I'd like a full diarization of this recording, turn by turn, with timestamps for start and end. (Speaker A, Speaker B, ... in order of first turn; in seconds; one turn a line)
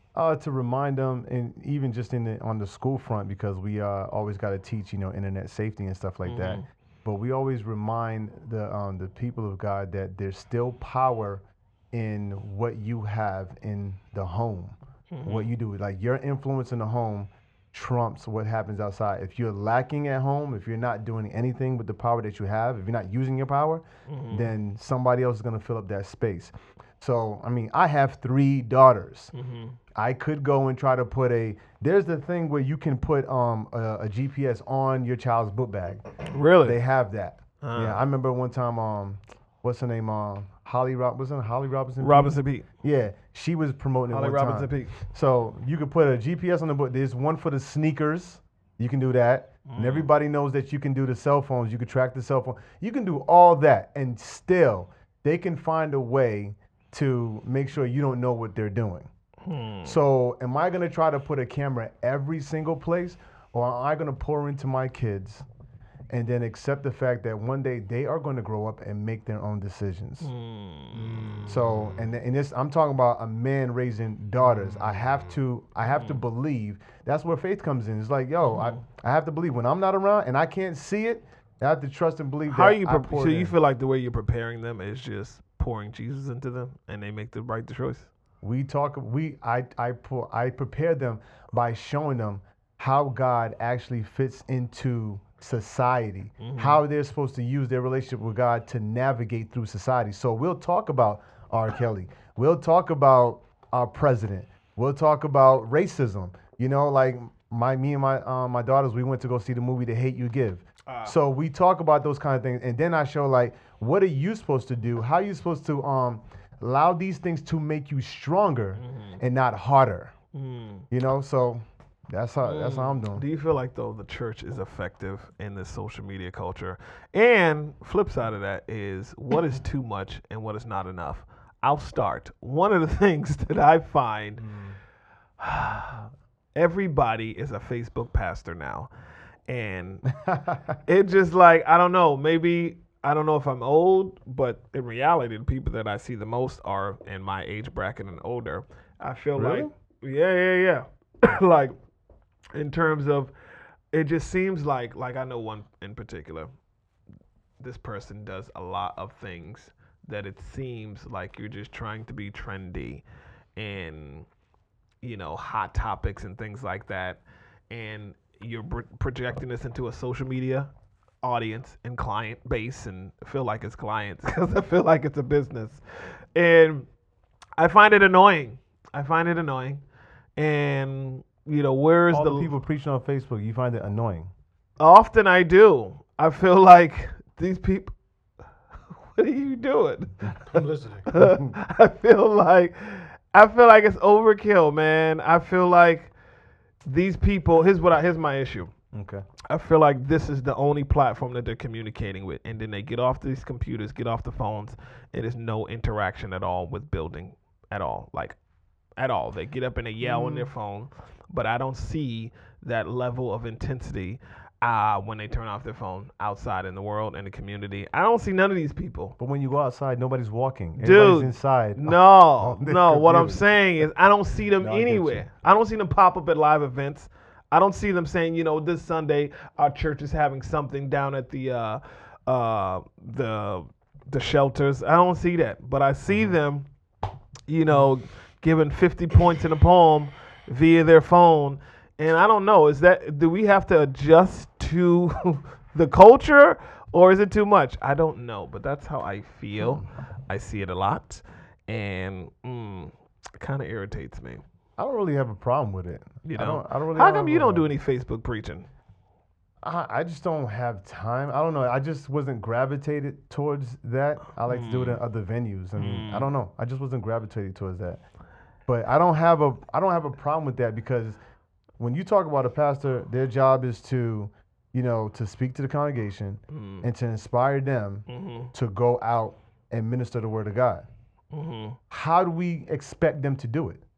Speaker A: 0.1-29.3
Speaker B: 6.2-6.6
Speaker B: 15.1-15.5
Speaker B: 24.1-24.5
Speaker B: 29.3-29.8
Speaker A: 29.9-36.0
Speaker B: 36.3-36.8
Speaker A: 36.6-59.1
Speaker B: 37.6-38.0
Speaker B: 42.0-42.6
Speaker B: 44.1-45.0
Speaker B: 49.7-50.1
Speaker B: 59.4-60.0
Speaker A: 59.8-65.5
Speaker A: 66.1-70.3
Speaker B: 70.2-71.4
Speaker C: 70.9-72.1
Speaker A: 71.5-83.5
Speaker C: 74.4-75.3
Speaker B: 75.9-76.2
Speaker B: 78.5-78.8
Speaker B: 82.5-88.1
Speaker A: 88.4-120.1
Speaker B: 96.4-96.8
Speaker B: 110.9-111.1
Speaker B: 118.8-119.2
Speaker B: 120.3-120.8
Speaker A: 120.9-123.2
Speaker B: 122.4-134.4
Speaker C: 134.4-134.8
Speaker B: 135.4-136.0
Speaker B: 136.6-138.9
Speaker B: 139.5-140.1
Speaker A: 140.1-140.8
Speaker B: 140.9-151.8
Speaker A: 149.3-149.7
Speaker B: 152.5-153.3
Speaker B: 153.9-156.5
Speaker B: 157.6-163.0
Speaker B: 163.6-164.2
Speaker B: 165.0-170.7
Speaker B: 171.2-175.8
Speaker B: 176.3-176.9
Speaker B: 177.6-179.8
Speaker B: 180.4-182.5
Speaker A: 182.1-184.3
Speaker B: 184.8-187.9
Speaker B: 189.1-190.4
Speaker C: 190.5-191.1
Speaker B: 191.1-196.1
Speaker A: 191.2-191.5
Speaker B: 196.8-198.7
Speaker A: 198.9-199.2
Speaker B: 199.5-208.4
Speaker B: 209.0-219.2
Speaker A: 210.0-210.5
Speaker A: 219.2-223.4
Speaker B: 220.8-236.7
Speaker A: 224.6-225.2
Speaker A: 236.1-236.3
Speaker B: 237.5-254.4
Speaker A: 254.8-257.7
Speaker B: 256.2-258.7
Speaker A: 259.6-268.0
Speaker B: 264.5-265.0
Speaker B: 265.8-266.3
Speaker A: 268.7-271.2
Speaker A: 271.8-280.9
Speaker B: 276.5-276.8
Speaker B: 278.1-278.5
Speaker B: 281.3-281.8
Speaker A: 281.9-283.8